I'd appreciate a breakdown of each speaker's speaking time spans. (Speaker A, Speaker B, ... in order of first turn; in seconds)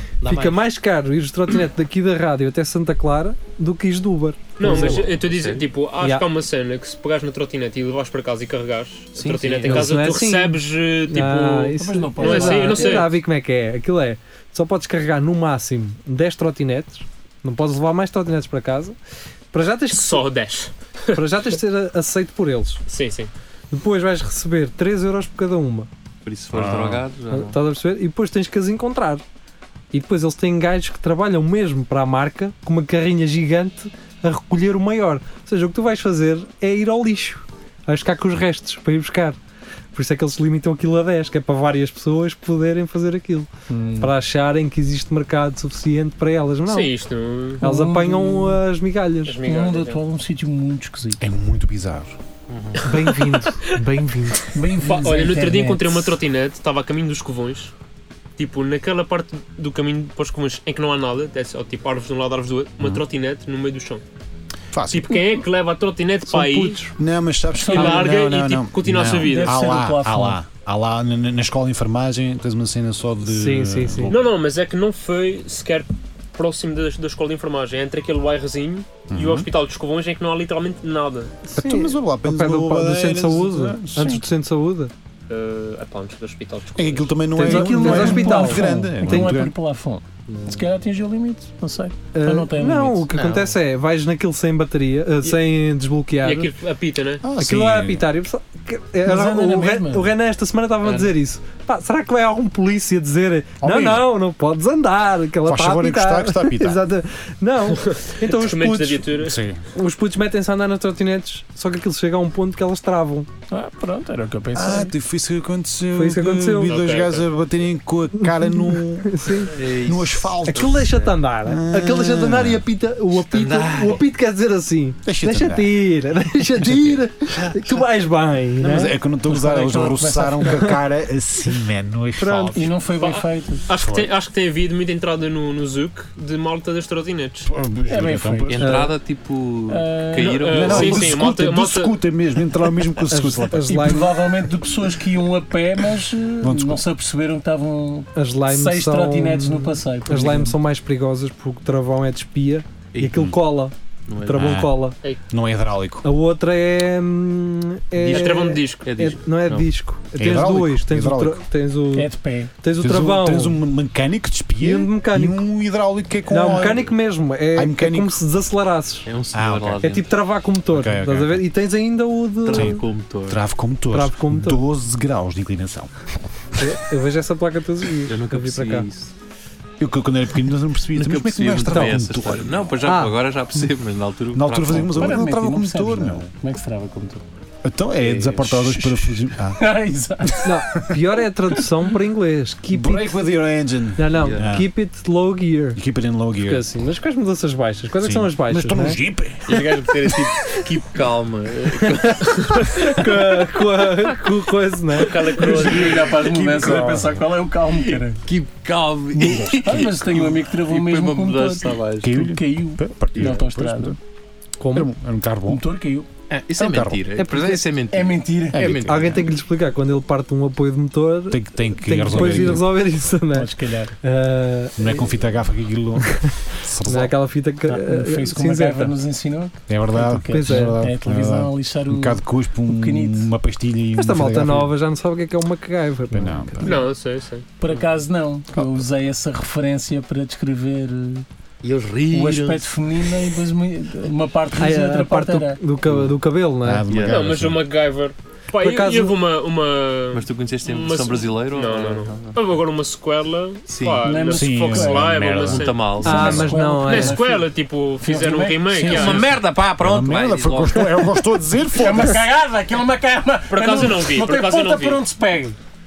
Speaker A: 0.2-0.6, 4.6-5.7, 9.1-9.9, 26.2-27.6, 52.5-52.8, 90.3-90.6, 93.1-93.5, 100.8-101.1, 119.5-121.2, 123.2-124.0, 138.5-141.1, 152.9-153.2, 154.1-154.4, 158.0-159.7, 169.1-170.1, 172.4-173.4, 178.1-179.1, 180.9-185.2, 188.0-188.7, 194.1-194.5, 199.5-202.6, 207.8-212.2, 216.3-219.1, 241.6-243.1, 246.9-247.3, 250.1-252.4, 253.7-254.1, 255.4-256.4, 258.8-260.9
Speaker B: 0.2-5.0, 6.0-6.3, 9.6-18.9, 19.5-20.2, 21.1-22.8, 23.7-25.9, 27.3-29.2, 29.9-39.4, 39.9-46.9, 47.6-49.4, 52.8-54.5, 66.5-66.8, 73.2-74.2, 81.5-84.9, 87.3-89.2, 92.1-96.5, 97.4-109.1, 109.7-113.3, 114.6-114.8, 115.9-116.8, 118.1-119.5, 120.5-128.9, 132.2-132.7, 138.6-138.9, 143.1-144.1, 148.1-155.0, 156.0-163.6, 164.6-165.4, 166.3-169.1, 169.8-172.8, 173.9-174.6, 176.6-178.9, 181.7-182.0, 182.8-183.1, 190.4-193.2, 193.9-195.8, 196.4-199.0, 201.9-205.4, 214.6-214.9, 217.2-217.6, 218.8-225.1, 226.8-228.9, 230.3-230.8, 234.0-236.7, 244.6-246.8, 248.6-249.2, 256.0-257.2
Speaker C: 4.6-13.1, 19.9-21.2, 22.9-23.3, 46.7-47.6, 49.2-50.0, 52.9-53.8, 54.8-57.7, 58.4-64.0, 64.9-66.8, 67.7-69.8, 74.1-81.3, 85.3-87.2, 96.2-97.2, 107.7-109.4, 116.7-117.2, 133.0-137.5, 140.2-141.9, 158.0-158.9, 205.0-206.1, 236.6-237.4, 247.1-259.3, 263.5-265.0
Speaker D: 11.8-13.1, 43.7-44.1, 47.6-48.6, 49.4-51.2, 54.5-56.2, 67.5-68.1, 69.0-70.4, 87.4-93.1, 99.0-100.1, 113.5-114.9, 129.3-130.8, 132.5-133.6, 137.9-138.7, 139.7-141.0, 143.7-150.6, 161.9-162.5, 184.9-187.2, 188.7-191.0, 205.3-208.2, 209.1-214.0, 215.5-216.1, 217.3-218.7, 222.1-222.6, 223.3-223.9, 227.7-233.3, 237.6-241.2, 242.1-245.6, 254.0-255.1, 256.0-259.4, 261.6-265.6
Speaker E: 26.5-27.0, 51.2-52.1, 64.7-65.2, 66.9-74.2, 79.1-79.5, 81.5-84.2, 86.7-89.5, 97.2-98.1, 103.6-104.1, 105.4-106.8, 109.1-109.6, 114.5-120.9, 121.4-122.6, 125.0-125.8, 128.6-132.7, 133.7-134.1, 137.4-138.7, 140.5-144.0, 146.4-146.8, 153.0-153.3, 154.3-154.7, 155.3-156.1, 160.1-161.4, 162.8-166.9, 167.5-168.2, 169.3-169.8, 170.7-171.5, 172.5-175.9, 179.8-182.7, 184.3-186.2, 187.6-189.6, 192.7-194.7, 195.7-196.7, 198.0-200.2, 206.1-207.2, 212.0-214.0, 214.7-215.6, 216.6-217.0, 218.5-219.3, 221.3-222.6, 224.8-227.1, 229.7-234.7, 236.1-236.7, 246.6-247.6, 254.3-256.5, 259.8-262.2